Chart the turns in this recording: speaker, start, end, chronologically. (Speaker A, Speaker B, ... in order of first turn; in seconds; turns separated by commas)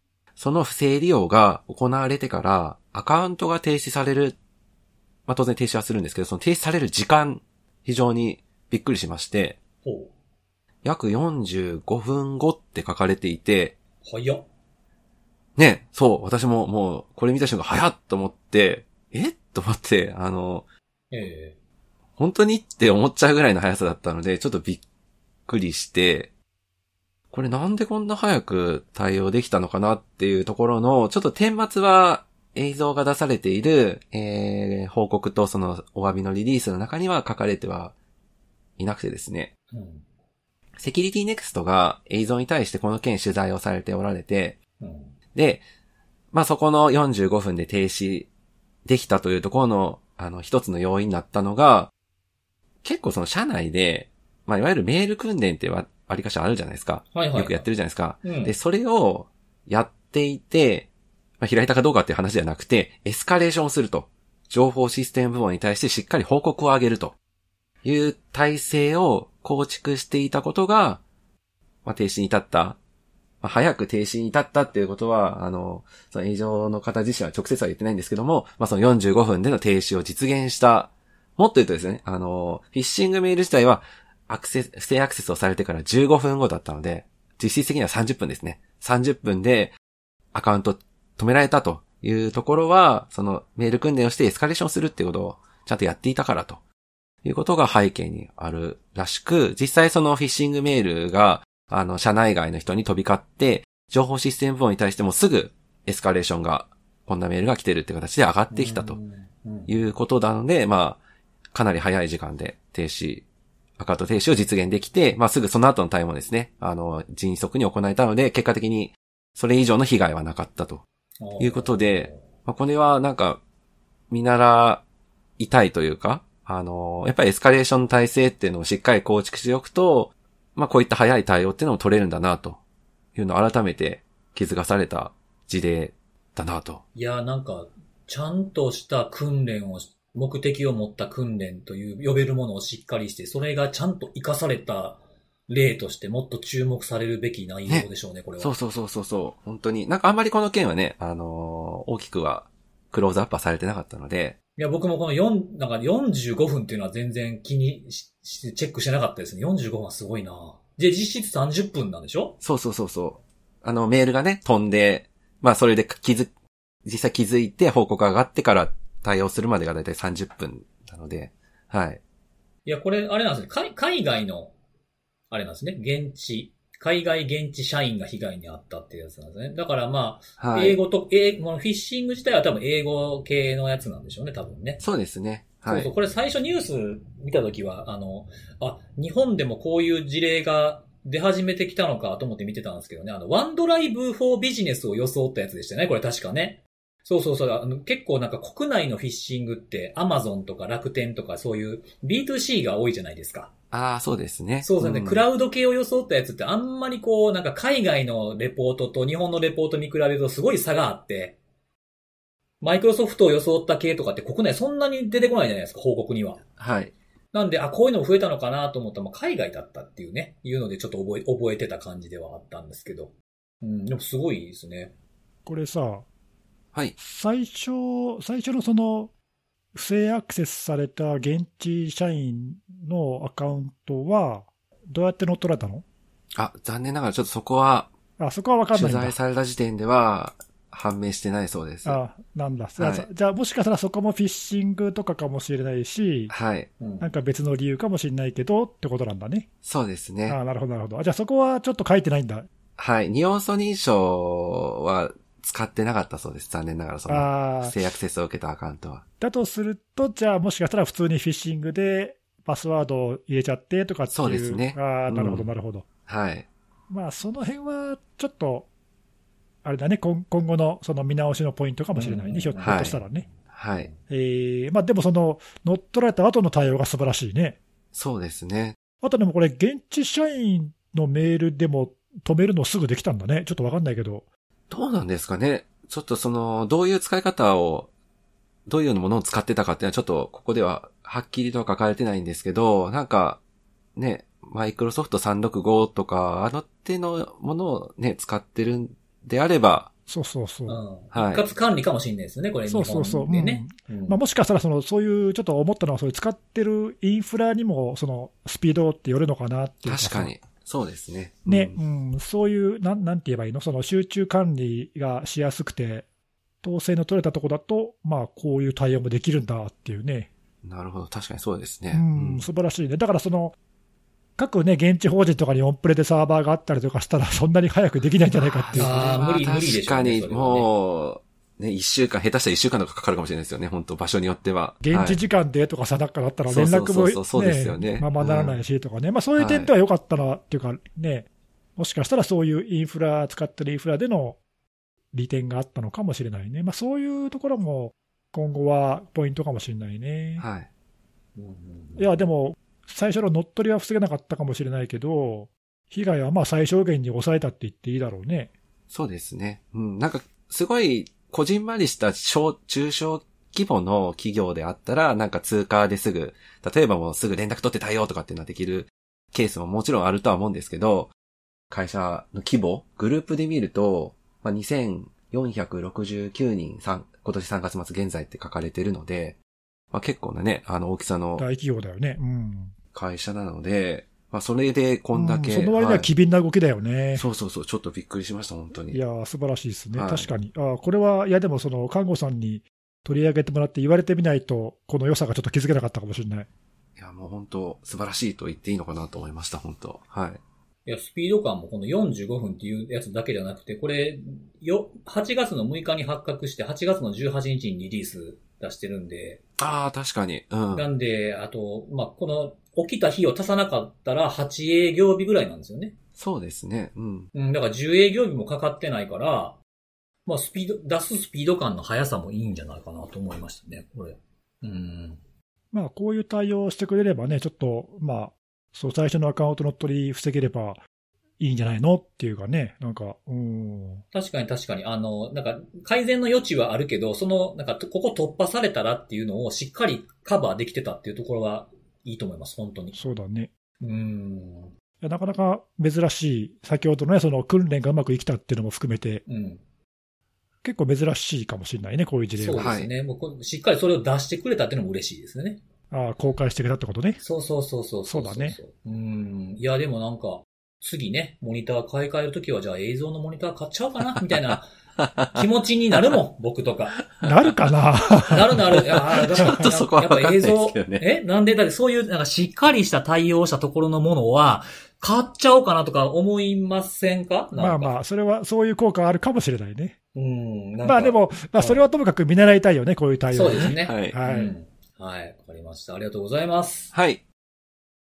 Speaker A: 0.3-4.4, Speaker A: 5.3-9.6, Speaker B: 9.8-10.1, Speaker A: 10.8-13.7, Speaker B: 14.0-14.4, Speaker A: 15.6-20.6, Speaker B: 21.1-21.5, Speaker A: 22.2-24.8, Speaker A: 25.4-26.3, Speaker A: 27.3-37.9, Speaker A: 38.8-39.5, Speaker B: 39.7-40.0, Speaker A: 40.8-44.6, Speaker B: 44.8-45.1, Speaker A: 45.3-45.6, Speaker A: 46.3-48.3, Speaker A: 48.8-51.9, Speaker A: 52.8-60.9, Speaker B: 57.1-57.6, Speaker B: 58.2-58.5, Speaker A: 61.4-67.2, Speaker A: 67.8-71.0, Speaker A: 71.8-72.8, Speaker A: 73.4-89.7, Speaker A: 90.3-96.6, Speaker A: 97.2-109.0, Speaker B: 108.5-109.7, Speaker A: 109.7-111.0, Speaker A: 111.5-113.2, Speaker A: 113.8-120.8, Speaker B: 121.2-122.2, Speaker A: 121.4-123.4, Speaker A: 124.1-124.8, Speaker A: 125.4-132.6, Speaker A: 133.1-136.8, Speaker B: 136.9-148.5, Speaker A: 148.4-154.4, Speaker B: 154.6-162.3, Speaker A: 162.4-166.3, Speaker A: 166.8-172.0, Speaker B: 172.7-174.5, Speaker B: 175.3-184.8, Speaker A: 180.4-180.8, Speaker A: 184.8-185.9, Speaker B: 185.6-203.5, Speaker A: 203.7-205.2, Speaker B: 204.6-211.4, Speaker B: 212.6-216.4, Speaker A: 216.6-216.9, Speaker B: 217.3-224.9, Speaker C: 225.4-226.0, Speaker C: 227.0-229.1, Speaker C: 229.7-235.8, Speaker A: 236.3-237.9, Speaker C: 238.2-239.1, Speaker A: 238.7-242.0, Speaker C: 241.8-246.3, Speaker A: 242.8-243.1, Speaker A: 246.3-246.7, Speaker B: 246.8-247.1, Speaker C: 247.0-249.5, Speaker A: 249.6-250.4, Speaker C: 250.3-252.5, Speaker A: 252.8-259.0, Speaker C: 257.1-257.8, Speaker C: 259.2-265.9, Speaker A: 264.1-265.5, Speaker A: 266.1-266.4, Speaker C: 266.9-268.7, Speaker C: 269.6-273.3, Speaker B: 271.9-272.9, Speaker A: 272.6-273.0, Speaker A: 273.5-273.9, Speaker C: 274.1-277.6, Speaker A: 277.9-278.8, Speaker C: 279.0-284.2, Speaker A: 284.7-287.9, Speaker A: 288.6-293.4, Speaker A: 293.9-299.9, Speaker C: 300.1-300.8, Speaker B: 300.7-304.2, Speaker A: 301.1-301.5, Speaker C: 302.7-310.3, Speaker A: 309.8-311.8, Speaker C: 311.4-316.1, Speaker C: 316.6-320.3, Speaker A: 320.6-322.5, Speaker C: 321.9-323.6, Speaker C: 324.4-329.0, Speaker A: 328.3-335.2, Speaker B: 328.8-330.7, Speaker C: 334.8-344.4, Speaker A: 336.5-338.6, Speaker A: 339.4-339.7, Speaker C: 345.1-350.4, Speaker A: 350.4-350.7, Speaker B: 351.4-352.2, Speaker C: 352.0-358.5, Speaker A: 358.9-371.1, Speaker A: 371.7-379.4, Speaker A: 379.9-381.4, Speaker C: 381.4-382.7, Speaker A: 382.9-386.1, Speaker C: 385.1-387.2, Speaker A: 387.1-389.0, Speaker C: 388.9-396.5, Speaker A: 389.9-390.3, Speaker A: 397.0-400.4, Speaker B: 400.9-409.4, Speaker A: 409.6-410.9, Speaker B: 410.7-415.9, Speaker A: 416.2-417.3, Speaker B: 417.3-419.6, Speaker B: 420.2-425.2, Speaker C: 425.7-430.8, Speaker C: 431.4-434.0, Speaker B: 434.1-443.0, Speaker C: 442.9-443.5, Speaker B: 443.8-444.7, Speaker C: 445.0-449.2, Speaker B: 449.2-449.6, Speaker C: 450.6-452.7, Speaker B: 452.4-455.6, Speaker A: 452.6-452.9, Speaker C: 455.9-457.2, Speaker B: 457.2-464.7, Speaker C: 458.1-458.6, Speaker A: 465.0-465.4, Speaker B: 465.3-467.0, Speaker A: 467.0-467.3, Speaker C: 467.2-468.6, Speaker B: 468.3-477.9, Speaker A: 468.9-471.0, Speaker C: 469.4-469.6, Speaker C: 477.6-479.9, Speaker B: 480.1-481.8, Speaker C: 480.8-484.5, Speaker B: 483.3-486.9, Speaker A: 483.4-484.2, Speaker A: 486.9-487.2